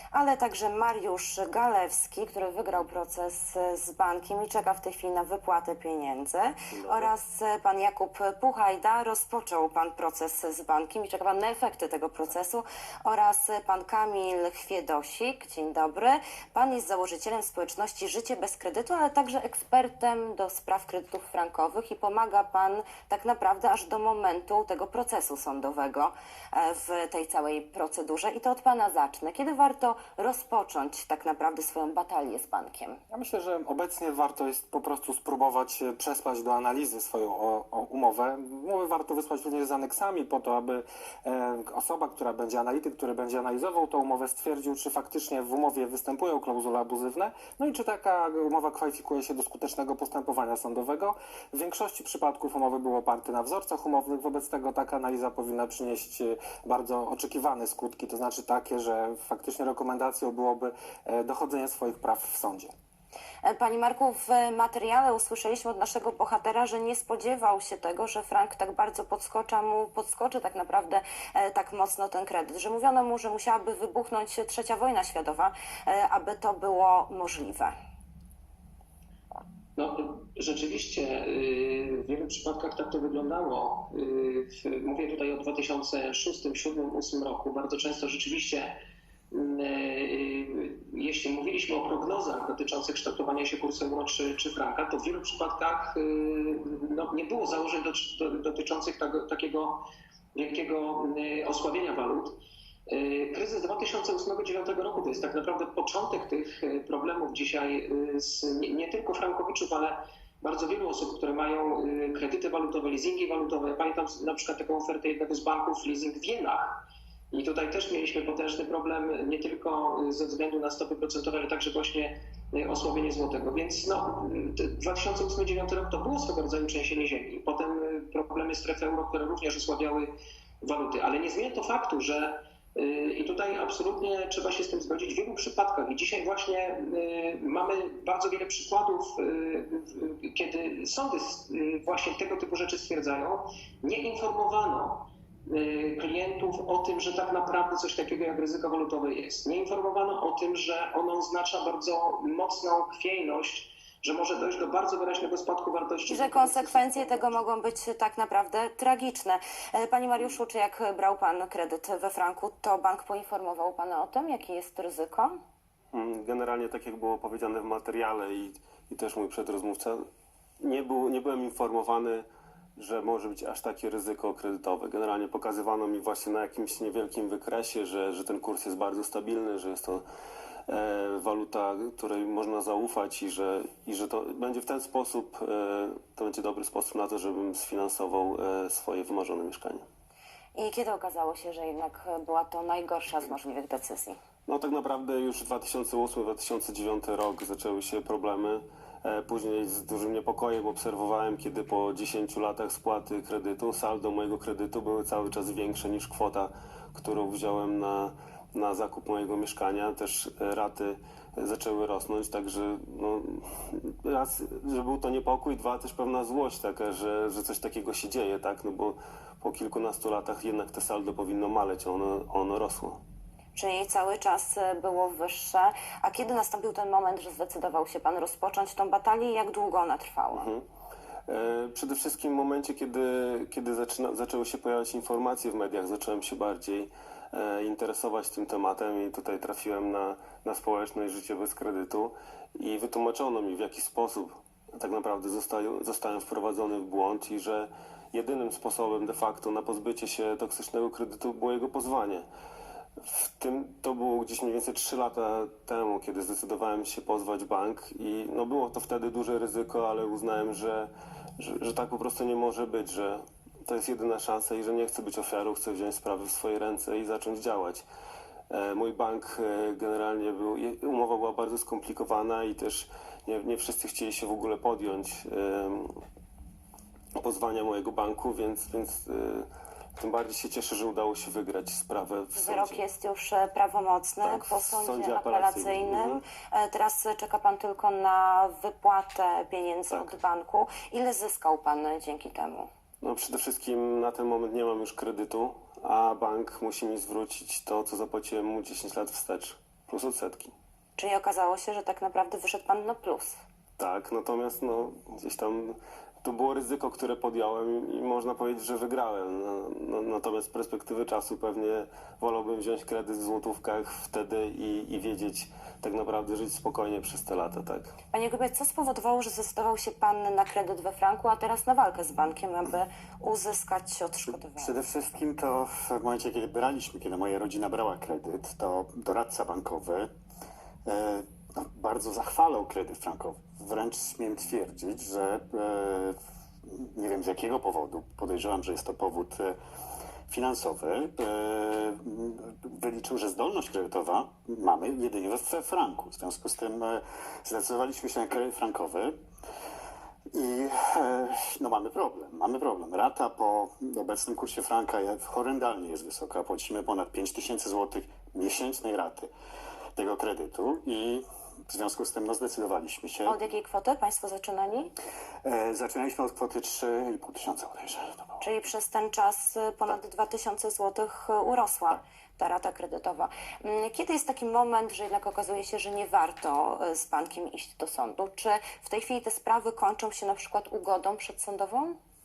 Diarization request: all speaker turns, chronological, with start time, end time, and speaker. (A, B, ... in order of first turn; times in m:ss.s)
0:00.1-0:33.0 A
0:33.1-1:02.7 B
1:03.4-1:17.7 A
1:19.8-1:28.7 C
1:29.3-1:39.8 C
1:40.4-2:37.4 C
2:36.1-2:45.3 A
2:45.9-2:50.0 D
2:50.6-2:52.3 D
2:52.8-3:00.0 D
3:00.7-3:09.8 D
3:10.5-3:14.2 A
3:14.5-3:43.0 D
3:43.6-3:50.5 A
3:50.3-3:50.6 D
3:51.3-4:12.3 D
4:13.0-4:27.9 D
4:28.5-4:35.9 D
4:37.2-4:42.8 D
4:42.3-4:52.7 A
4:44.2-4:46.2 D
4:49.9-4:50.1 D
4:53.0-5:00.5 D
5:01.0-5:03.4 A
5:03.8-5:17.9 D
5:18.1-5:24.7 A
5:24.6-5:30.1 E
5:30.9-5:36.2 E
5:36.7-5:39.6 E
5:40.3-5:49.2 E
5:50.3-5:59.3 E
6:00.0-6:03.4 E
6:03.2-6:04.9 A
6:05.4-6:08.4 E
6:08.4-6:22.0 A